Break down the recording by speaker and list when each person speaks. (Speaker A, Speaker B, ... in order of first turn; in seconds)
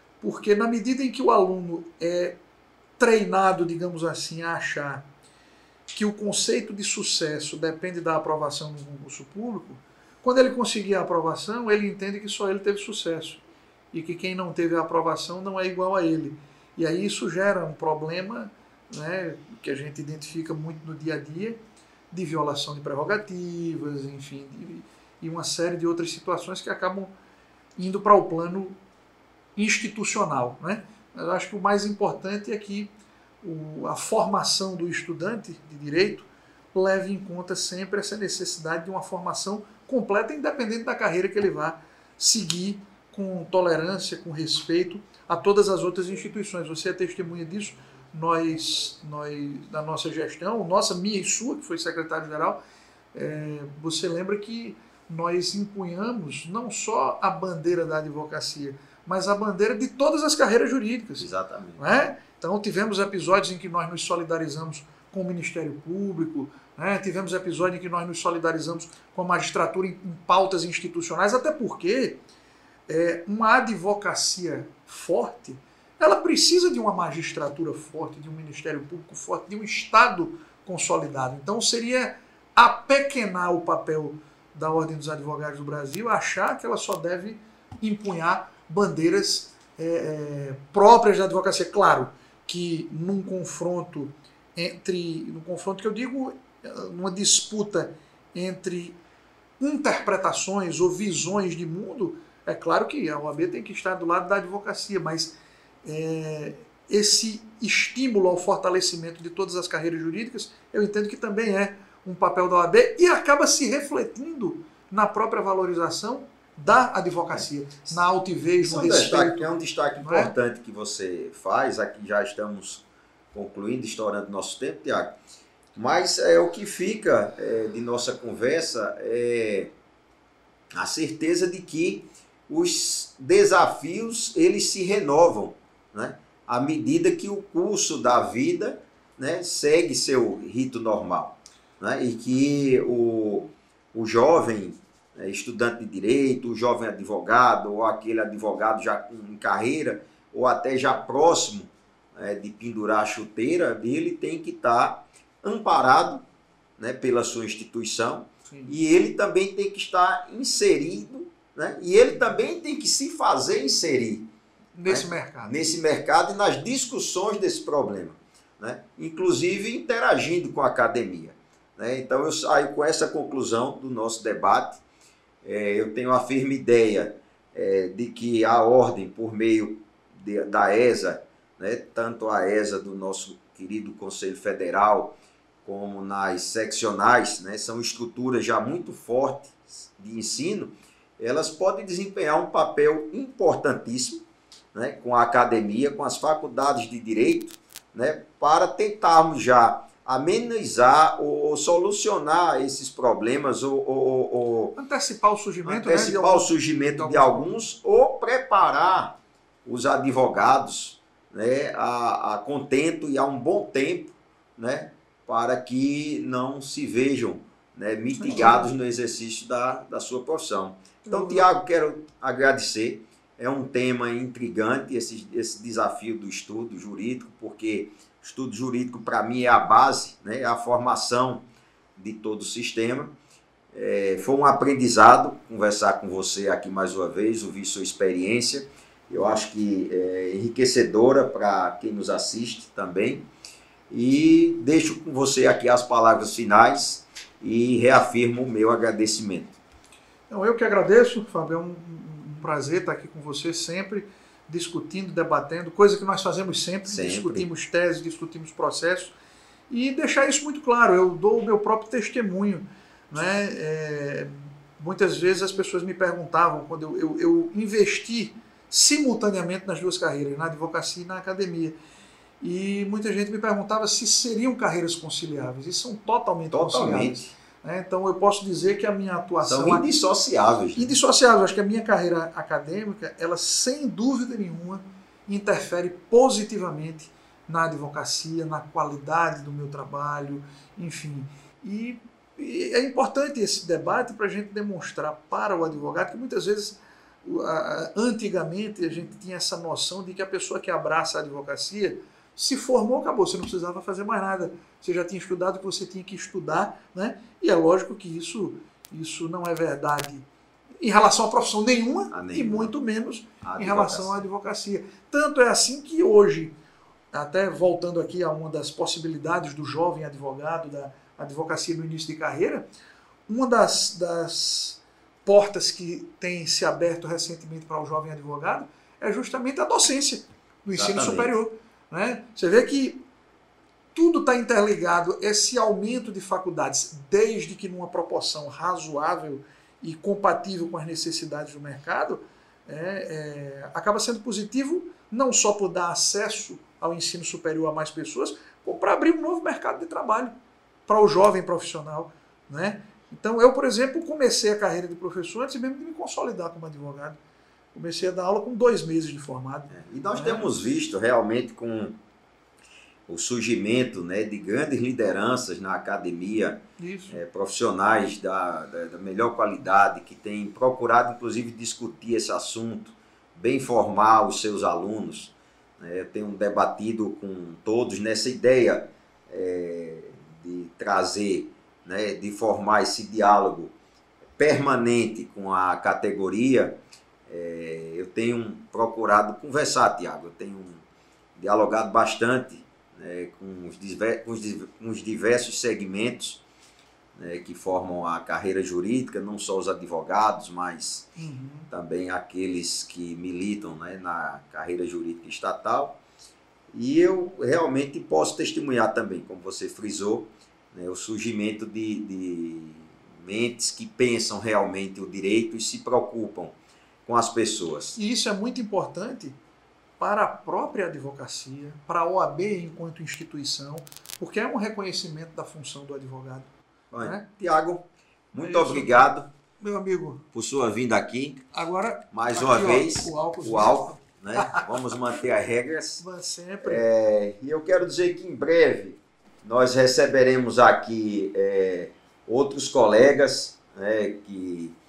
Speaker A: 0.2-2.4, 3.0-5.0, 5.9-21.6, 22.1-27.1, 27.8-28.8, 29.6-52.6, 53.1-72.2, 72.9-99.0, 99.6-120.3, 164.8-165.5, 204.8-207.6, 218.2-218.7, 221.0-221.5, 250.3-259.1, 259.7-271.8, 272.4-279.9, 280.8-310.3, 310.8-316.5, 317.1-322.6, 323.3-333.0, 333.9-350.3, 350.9-357.2, 357.7-360.5, 366.8-367.2, 401.2-401.7, 418.0-419.4, 420.0-426.5, 428.4-430.2, 431.5-434.7, 436.0-436.8
Speaker B: 61.2-61.8, 118.6-125.2, 125.8-129.7, 130.8-156.2, 156.8-164.3, 164.9-174.8, 175.4-194.2, 194.7-204.8, 205.7-231.4, 232.0-233.1, 233.7-243.3, 243.9-249.6, 256.9-257.5, 276.5-277.3, 279.4-280.9, 312.1-312.7, 313.4-314.3, 330.7-331.3, 359.7-362.0, 363.1-383.7, 384.4-390.8, 391.4-396.4, 397.2-401.1, 401.7-406.0, 406.7-416.6, 417.1-418.0, 426.9-429.3, 430.3-431.4, 432.1-436.0, 436.6-444.8